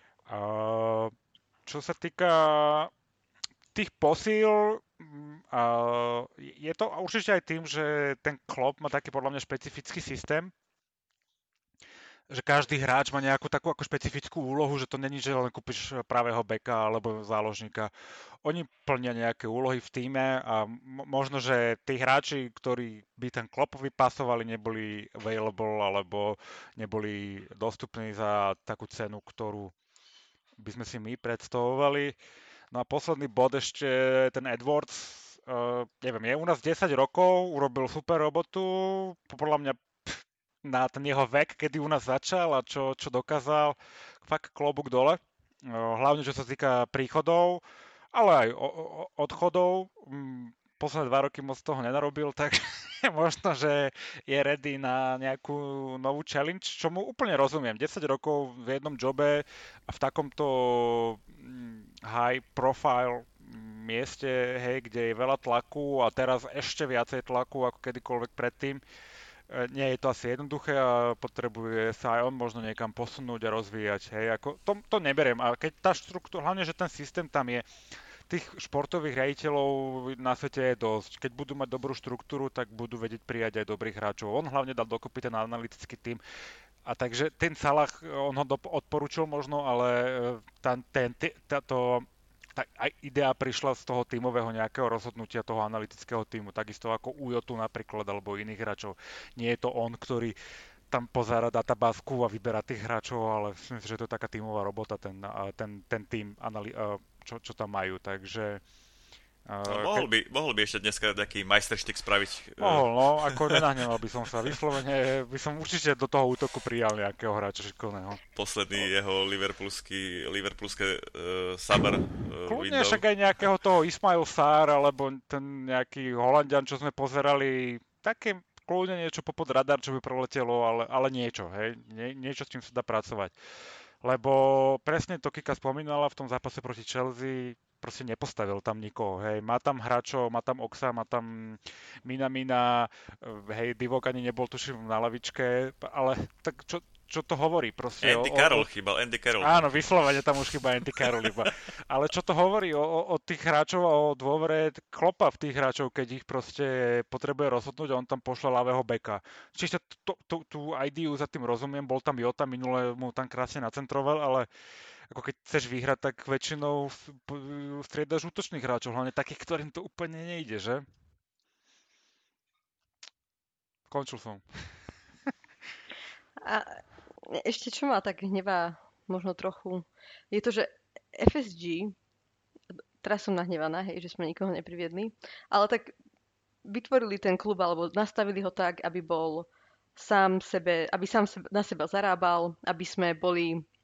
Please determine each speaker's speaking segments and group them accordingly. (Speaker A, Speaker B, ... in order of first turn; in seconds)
Speaker A: 0.3-1.1, 1.6-2.9, 3.7-10.5, 12.3-17.9, 18.4-29.7, 30.6-32.1, 32.7-68.8, 69.5-77.7, 78.3-86.2, 86.8-100.3, 100.9-108.6, 109.5-110.1, 112.6-118.2, 122.5-133.3, 134.0-148.7, 149.4-164.5, 165.1-170.8, 173.9-174.4
Speaker B: 109.6-113.7, 118.3-123.0, 148.0-149.7
Speaker C: 176.4-181.9, 183.0-185.9, 186.6-193.7